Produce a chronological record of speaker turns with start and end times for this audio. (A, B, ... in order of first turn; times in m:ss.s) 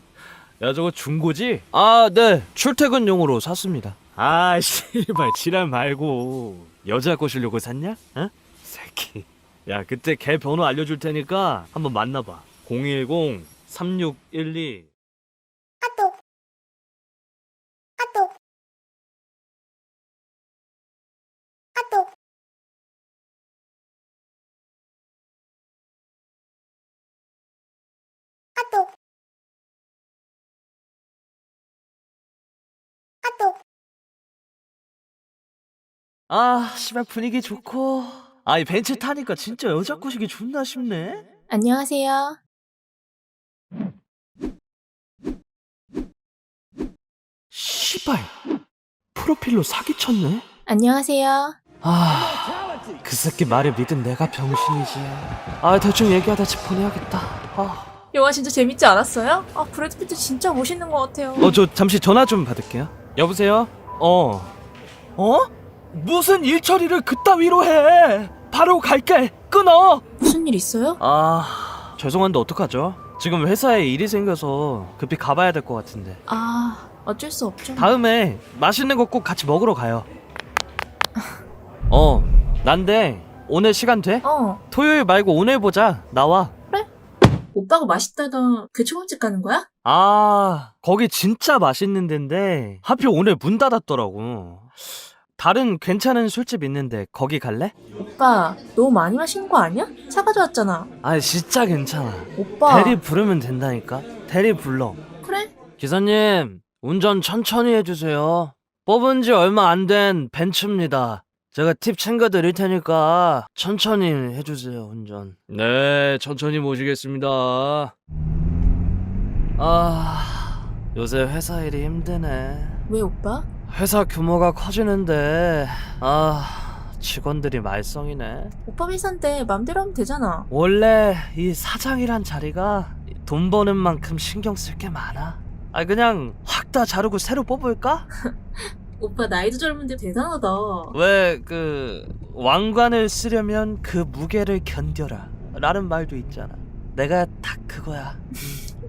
0:00.6-0:14.9 A
0:36.3-0:41.2 A
0:47.5-0:48.3 A
0:49.2-0:50.4 A
0:51.0-0:51.3 B
0:51.8-0:57.9 A
0:58.1-1:01.5 B
1:01.4-1:04.5 A
1:05.2-1:10.0 A
1:10.2-1:11.0 B
1:11.0-1:16.2 A
1:16.3-1:17.9 B
1:17.8-1:20.1 A
1:21.9-1:26.5 A
1:24.2-1:24.6 B
1:27.5-1:29.7 B
1:29.8-1:34.7 A
1:35.4-1:37.7 A
1:38.0-1:40.9 B
1:41.0-1:45.0 A
1:42.4-1:43.0 B
1:45.2-1:45.5 B
1:45.8-1:57.9 A
1:59.6-2:02.8 A
2:02.9-2:03.5 B
2:03.7-2:08.5 A
2:08.7-2:10.5 B
2:10.5-2:18.1 A
2:19.0-2:21.0 B
2:20.9-2:28.6 A